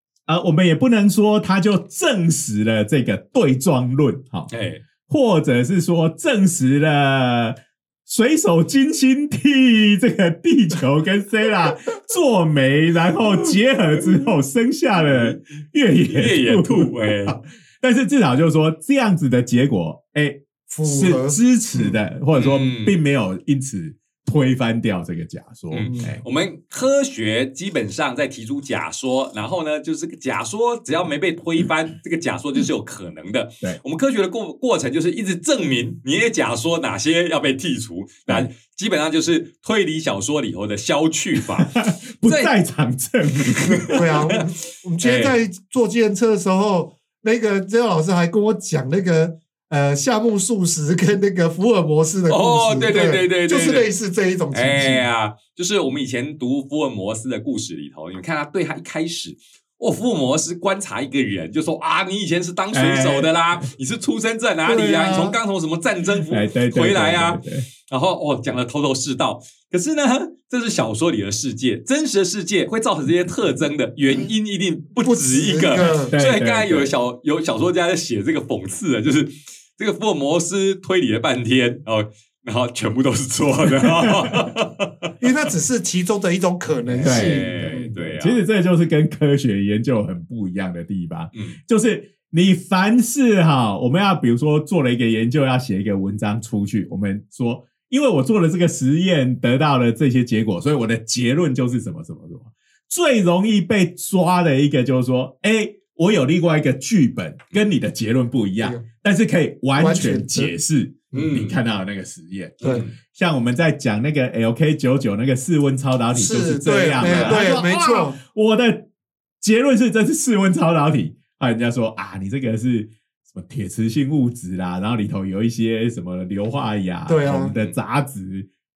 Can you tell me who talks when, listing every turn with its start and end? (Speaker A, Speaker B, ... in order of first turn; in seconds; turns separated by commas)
Speaker A: 0.3-4.5, Speaker B: 4.5-4.8, Speaker A: 5.1-26.2, Speaker B: 15.0-15.4, Speaker B: 16.1-17.4, Speaker C: 20.7-21.9, Speaker B: 22.3-23.0, Speaker B: 25.7-42.5, Speaker C: 25.9-26.1, Speaker A: 41.6-44.2, Speaker B: 43.8-44.4, Speaker C: 43.8-55.1, Speaker B: 45.0-45.4, Speaker B: 52.3-53.9, Speaker B: 54.5-85.1, Speaker A: 62.7-63.7, Speaker C: 64.7-65.4, Speaker A: 66.3-67.7, Speaker C: 75.0-76.1, Speaker A: 76.1-76.9, Speaker A: 83.8-84.5, Speaker C: 85.2-88.0, Speaker B: 86.9-88.4, Speaker A: 87.0-118.9, Speaker B: 91.3-91.6, Speaker C: 109.8-110.5, Speaker B: 111.1-111.5, Speaker B: 112.6-112.9, Speaker C: 116.1-118.2, Speaker B: 117.0-117.4, Speaker A: 119.4-128.5, Speaker C: 127.1-127.5